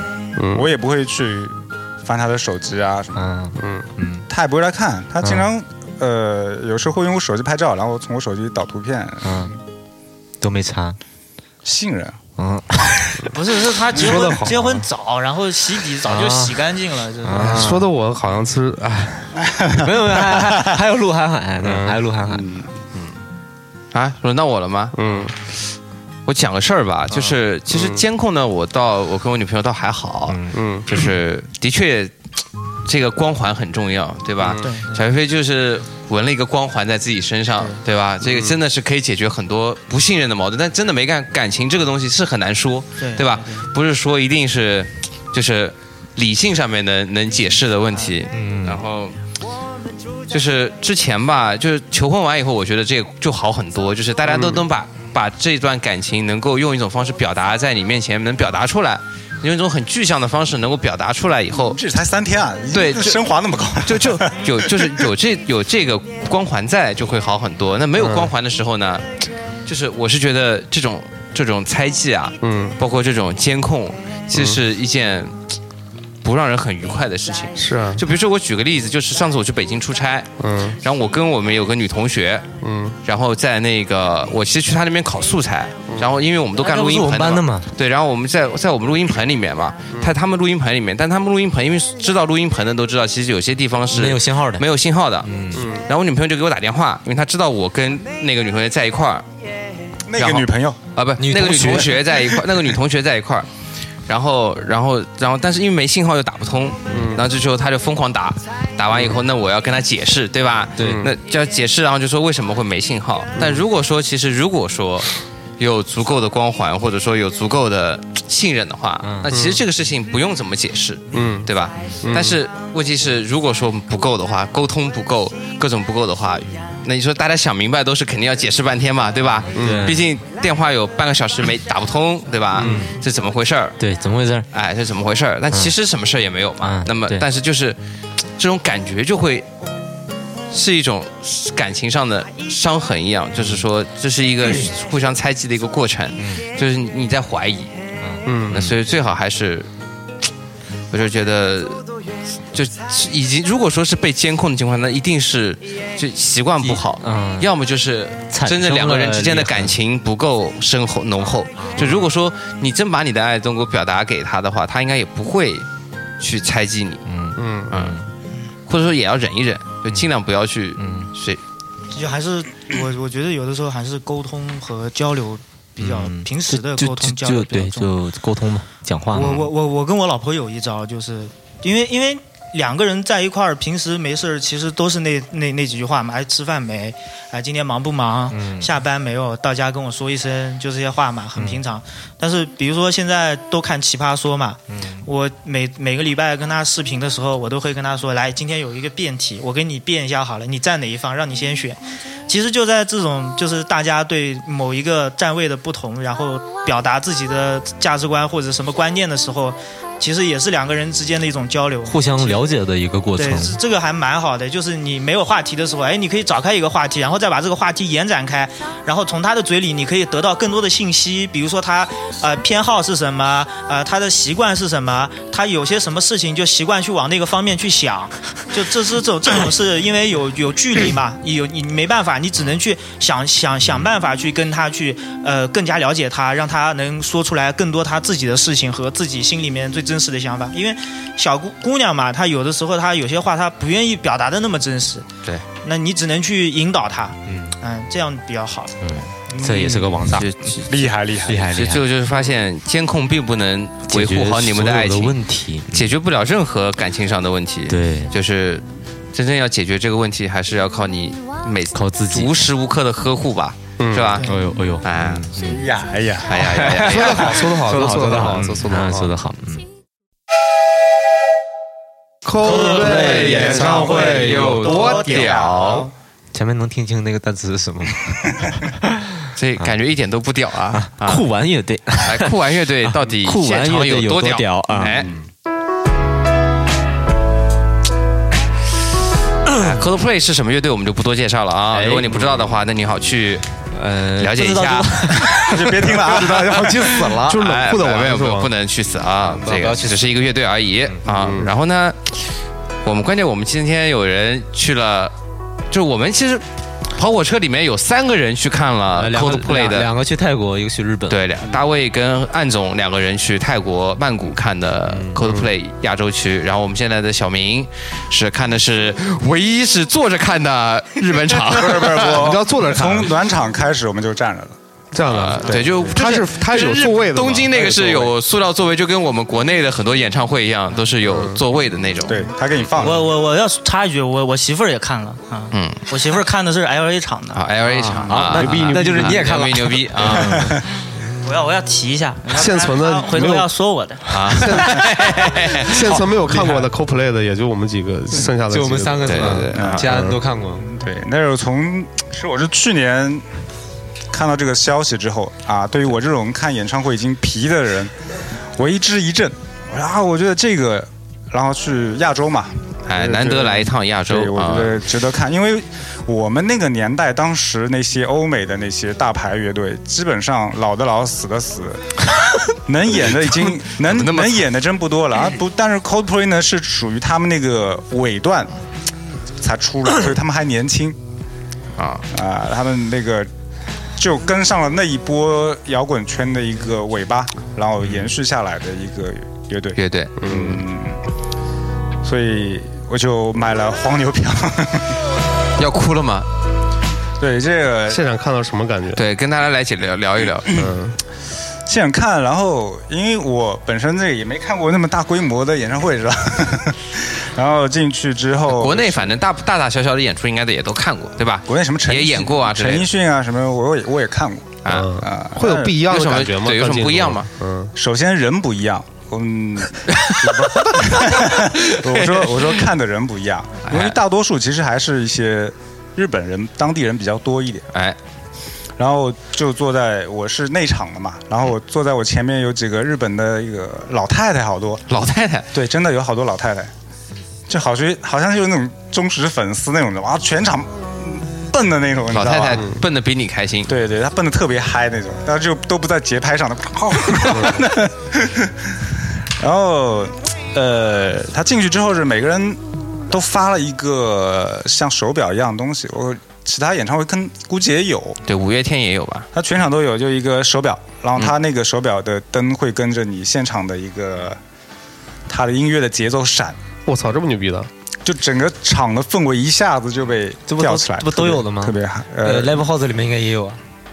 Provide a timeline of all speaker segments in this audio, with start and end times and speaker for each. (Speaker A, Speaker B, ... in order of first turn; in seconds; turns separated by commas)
Speaker A: 0.3-0.7, Speaker B: 0.5-3.3, Speaker C: 3.1-4.2, Speaker A: 3.6-3.9, Speaker B: 4.3-9.5, Speaker C: 5.2-5.5, Speaker C: 9.2-9.5, Speaker C: 10.4-11.0, Speaker B: 11.6-12.2, Speaker C: 12.4-13.2, Speaker D: 13.3-17.6, Speaker A: 13.9-14.8, Speaker C: 16.0-16.6, Speaker C: 17.2-17.8, Speaker A: 17.3-19.3, Speaker B: 19.5-20.7, Speaker C: 19.8-22.4, Speaker A: 21.6-22.0, Speaker B: 22.2-22.7, Speaker E: 23.9-24.9, Speaker A: 24.9-25.3, Speaker E: 26.2-32.1, Speaker A: 27.7-28.0, Speaker C: 30.3-30.6, Speaker A: 30.5-31.0, Speaker E: 32.8-49.1, Speaker D: 34.6-35.0, Speaker A: 38.2-38.5, Speaker D: 43.0-43.7, Speaker C: 48.3-48.8, Speaker E: 50.3-61.8, Speaker A: 54.3-54.6, Speaker B: 61.6-65.1, Speaker E: 62.7-63.2, Speaker E: 63.8-69.0, Speaker A: 68.0-68.3, Speaker E: 69.7-75.4, Speaker A: 72.4-72.8, Speaker A: 74.3-74.6, Speaker E: 76.2-82.5, Speaker A: 77.5-78.0, Speaker A: 80.4-80.8, Speaker A: 82.6-83.0, Speaker E: 83.0-99.2, Speaker C: 86.6-87.7, Speaker C: 93.9-94.6, Speaker C: 95.2-95.6, Speaker A: 95.5-95.9, Speaker B: 100.1-100.8, Speaker E: 100.2-103.5, Speaker C: 101.2-102.0, Speaker E: 104.1-133.8, Speaker A: 106.9-107.2, Speaker C: 110.8-111.1, Speaker A: 110.8-111.1, Speaker A: 113.3-113.6, Speaker C: 119.0-119.3, Speaker A: 119.3-119.6, Speaker A: 121.1-121.5, Speaker A: 122.0-122.4, Speaker C: 129.5-130.0, Speaker A: 129.5-129.9, Speaker A: 132.6-132.8, Speaker C: 132.6-132.9, Speaker C: 133.8-134.4, Speaker E: 134.5-137.8, Speaker C: 136.6-137.2, Speaker E: 138.4-139.4, Speaker E: 140.5-147.7, Speaker C: 146.2-146.4, Speaker C: 148.0-148.7, Speaker A: 148.2-148.7, Speaker E: 148.5-149.7, Speaker E: 150.9-151.8, Speaker E: 152.5-165.7, Speaker C: 156.6-157.5, Speaker C: 158.3-159.7, Speaker C: 161.6-162.0, Speaker E: 166.2-167.0, Speaker C: 167.1-168.0, Speaker A: 167.3-167.7, Speaker E: 167.7-168.0, Speaker E: 168.7-171.4, Speaker C: 170.8-171.1, Speaker D: 171.9-177.9, Speaker C: 175.8-179.5, Speaker D: 179.1-212.4, Speaker C: 188.3-188.7, Speaker C: 191.3-191.6, Speaker C: 194.7-195.0, Speaker C: 211.9-213.6, Speaker D: 213.2-248.7, Speaker C: 247.3-247.6, Speaker C: 248.8-250.3, Speaker B: 249.4-249.8, Speaker E: 250.1-250.9, Speaker B: 250.7-251.5, Speaker C: 251.2-251.8, Speaker E: 251.5-255.1, Speaker C: 253.9-255.9, Speaker E: 255.7-264.3, Speaker C: 257.7-258.1, Speaker C: 261.7-262.5, Speaker A: 263.8-264.2, Speaker D: 264.2-264.5, Speaker C: 264.2-265.6, Speaker E: 264.8-265.3, Speaker B: 265.4-266.4, Speaker E: 266.2-267.4, Speaker C: 266.3-269.6, Speaker A: 266.7-269.1, Speaker A: 272.2-275.8, Speaker C: 272.5-274.3, Speaker E: 272.8-275.9, Speaker B: 272.9-275.9, Speaker C: 276.3-279.0, Speaker E: 279.3-281.2, Speaker C: 280.7-282.3, Speaker E: 282.0-285.1, Speaker C: 282.8-285.0, Speaker E: 289.5-293.4, Speaker C: 291.7-292.3, Speaker A: 292.1-292.4, Speaker C: 293.7-296.9, Speaker E: 294.2-302.3, Speaker B: 295.5-297.1, Speaker A: 296.6-298.5, Speaker C: 299.3-300.1, Speaker A: 301.1-301.6, Speaker E: 302.8-305.1, Speaker E: 305.7-309.9, Speaker C: 308.9-311.2, Speaker E: 311.1-322.4, Speaker C: 314.9-315.2, Speaker A: 315.2-315.5, Speaker B: 321.4-324.6, Speaker A: 322.0-323.2, Speaker A: 324.9-328.1, Speaker E: 325.1-332.6, Speaker B: 325.4-325.7, Speaker A: 331.0-331.4, Speaker B: 332.1-333.0, Speaker D: 332.8-337.4, Speaker E: 335.5-335.8, Speaker E: 337.3-340.6, Speaker C: 337.6-340.6, Speaker A: 338.3-339.2, Speaker D: 341.2-344.6, Speaker A: 342.3-343.5, Speaker E: 344.1-346.0, Speaker A: 344.3-344.9, Speaker A: 345.6-350.2, Speaker C: 346.3-346.6, Speaker C: 348.4-350.7, Speaker E: 349.1-349.9, Speaker B: 349.5-349.9, Speaker B: 350.6-353.2, Speaker B: 354.1-357.9, Speaker B: 358.6-371.8, Speaker E: 362.9-364.8, Speaker B: 372.5-378.5, Speaker E: 372.9-374.5, Speaker B: 379.4-381.0, Speaker E: 381.8-382.1, Speaker B: 382.1-383.3, Speaker B: 384.0-391.0, Speaker E: 387.8-388.1, Speaker E: 389.7-390.2, Speaker A: 390.2-390.6, Speaker B: 392.0-394.9, Speaker E: 395.6-396.3, Speaker B: 397.2-398.0, Speaker A: 397.9-399.0, Speaker E: 398.9-400.6, Speaker A: 400.5-401.0, Speaker B: 401.6-409.1, Speaker E: 408.5-412.9, Speaker B: 411.5-415.7, Speaker E: 414.6-415.0, Speaker A: 414.7-417.7, Speaker E: 415.8-417.3, Speaker B: 417.7-427.7, Speaker E: 419.9-422.7, Speaker E: 423.6-424.0, Speaker B: 428.8-434.8, Speaker E: 434.9-435.5, Speaker B: 435.5-436.7, Speaker B: 437.5-442.7, Speaker E: 442.1-443.7, Speaker A: 442.5-442.8, Speaker B: 443.7-448.8, Speaker A: 447.3-447.6, Speaker B: 449.4-458.2, Speaker E: 458.2-459.3, Speaker B: 459.3-464.4, Speaker B: 465.3-466.6, Speaker A: 466.9-467.7, Speaker B: 468.0-472.6, Speaker C: 470.5-473.6